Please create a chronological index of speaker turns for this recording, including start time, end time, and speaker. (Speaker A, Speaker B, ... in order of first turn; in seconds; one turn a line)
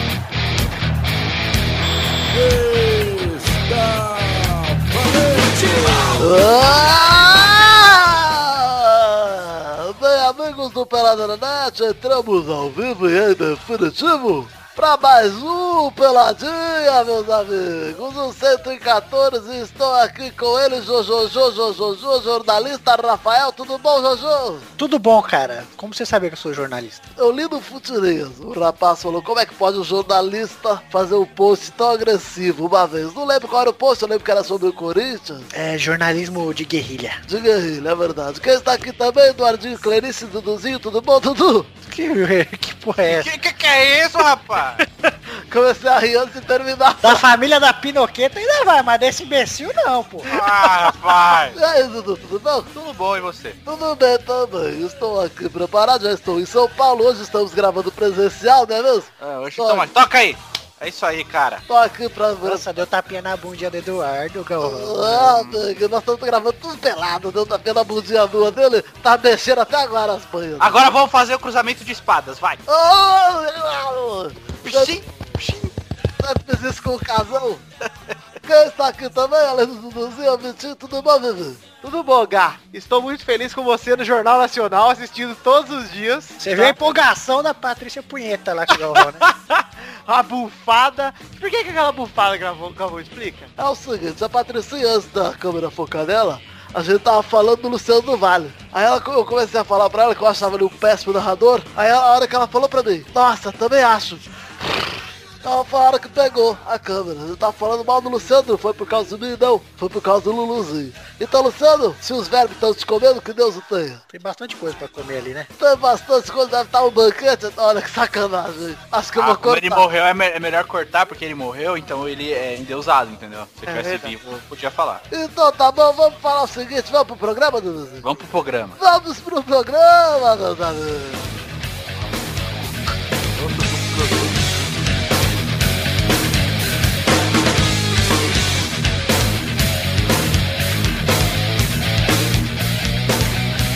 Speaker A: 2.3-6.4
Speaker B: 6.2-24.7
Speaker C: 24.8-27.1
Speaker B: 27.2-35.5
Speaker C: 35.5-37.2
Speaker B: 37.3-41.7
Speaker C: 41.9-43.3
Speaker D: 43.0-44.9
Speaker B: 45.3-47.2
Speaker C: 47.0-50.4
Speaker D: 50.3-51.6
Speaker B: 51.5-52.7
Speaker D: 52.7-53.6
Speaker B: 53.7-59.9
Speaker D: 59.2-61.6
Speaker B: 61.7-62.6
Speaker C: 62.4-65.2
Speaker B: 64.6-71.0
Speaker D: 65.2-65.6
Speaker D: 70.6-72.6
Speaker B: 72.7-75.0
Speaker D: 74.6-75.6
Speaker B: 76.2-77.6
Speaker B: 78.5-81.6
Speaker E: 81.8-86.8
Speaker C: 86.4-89.3
Speaker E: 89.2-93.5
Speaker B: 93.6-104.9
Speaker B: 105.4-114.0
Speaker C: 114.1-115.5
Speaker B: 115.6-119.9
Speaker D: 119.1-125.0
Speaker E: 123.7-124.2
Speaker B: 125.1-128.1
Speaker D: 128.0-128.8
Speaker B: 128.8-131.4
Speaker B: 133.3-134.3